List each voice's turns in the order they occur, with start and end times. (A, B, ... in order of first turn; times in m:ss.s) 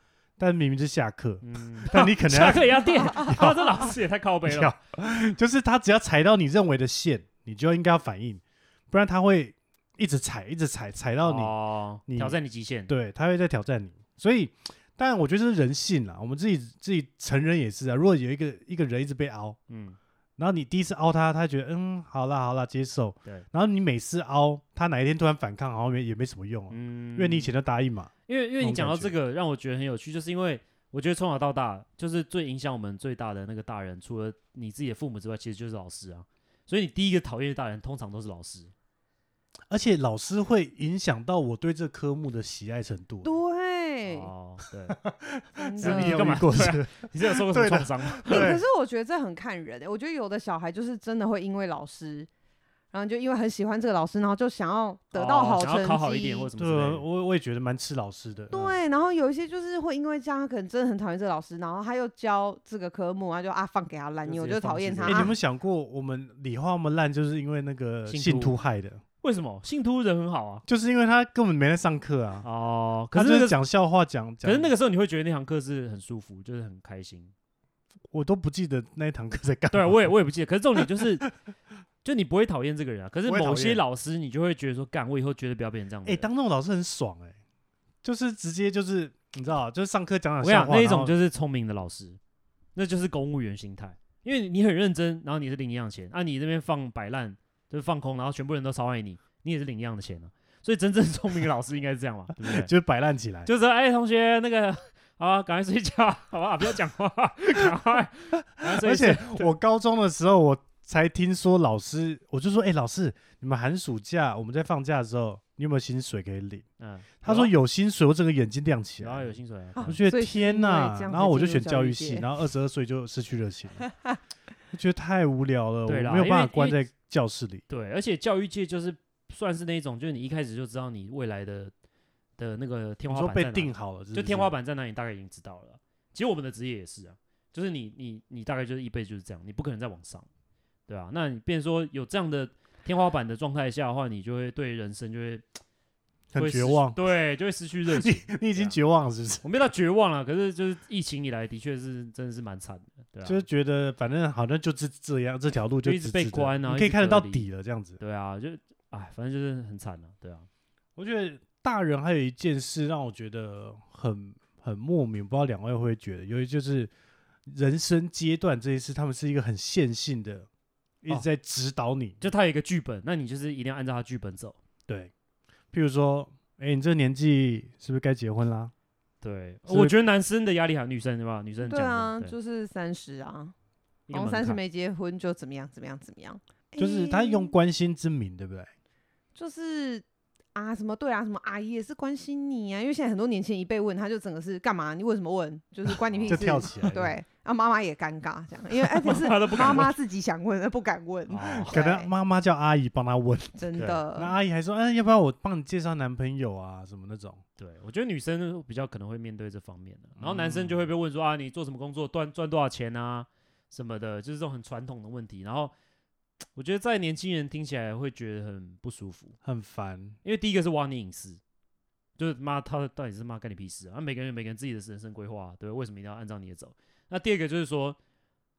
0:00.4-0:03.9 A
0:01.4-0:04.7 B
0:04.4-0:11.5 A
0:11.2-0:12.9 B
0:12.1-0:19.6 A
0:19.7-0:20.0 B
0:20.4-0:29.2 A
0:26.7-0:27.5 B
0:28.3-0:38.7 B
0:39.7-0:43.3 A
0:43.2-0:44.3 C
0:44.1-0:45.0 B
0:45.0-0:48.6 A
0:45.6-0:46.4 C
0:45.8-0:48.4 B
0:48.3-0:52.3 C
0:52.9-0:56.5 C
0:55.1-0:57.0 B
0:56.6-0:58.6 A
0:58.5-1:05.3 C
1:04.2-1:05.3 B
1:05.1-1:09.0 A
1:08.1-1:08.6 B
1:09.2-1:10.6 B
1:10.7-1:12.5 A
1:12.4-1:13.6 B
1:13.1-1:14.7 A
1:14.4-1:17.3 B
1:18.1-1:20.1 A
1:19.7-1:21.2 B
1:20.8-1:21.3 A
1:22.0-1:26.3 B
1:23.3-1:23.8 A
1:26.0-1:27.4 A
1:28.0-1:31.1 A
1:30.4-1:32.2 B
1:32.8-1:42.7 B
1:42.4-1:43.5 A
1:43.5-1:49.5 B
1:48.6-1:56.7 A
1:56.8-1:57.5 B
1:57.2-2:03.9 A
1:59.0-2:00.0 B
1:59.8-2:02.3 C
2:04.7-2:07.6 A
2:05.9-2:06.8 B
2:07.7-2:11.7 B
2:12.4-2:20.3 B
2:13.1-2:14.5 A
2:20.9-2:25.4 B
2:26.3-2:27.0 A
2:26.4-2:28.8 B
2:27.9-2:29.4 A
2:29.4-2:33.4 B
2:33.2-2:38.0 A
2:35.8-2:37.5 B
2:38.0-2:40.5 B
2:41.0-2:46.9 A
2:47.5-2:50.5 A
2:51.0-2:52.2 A
2:52.2-2:54.6 B
2:55.7-2:58.7 A
2:59.2-3:02.4 B
2:59.7-3:00.0 A
3:01.6-3:03.5 C
3:04.1-3:04.6 B
3:04.1-3:07.5 C
3:06.8-3:08.7 A
3:09.4-3:22.1 C
3:16.1-3:16.6 B
3:16.3-3:17.2 A
3:18.8-3:19.9 B
3:21.3-3:21.8 B
3:21.6-3:27.4 A
3:23.6-3:24.4 C
3:23.8-3:24.0 B
3:27.6-3:35.7 B
3:30.2-3:30.9 A
3:36.6-3:39.4 B
3:39.4-3:40.2 A
3:40.2-3:41.4 B
3:42.2-3:48.0 B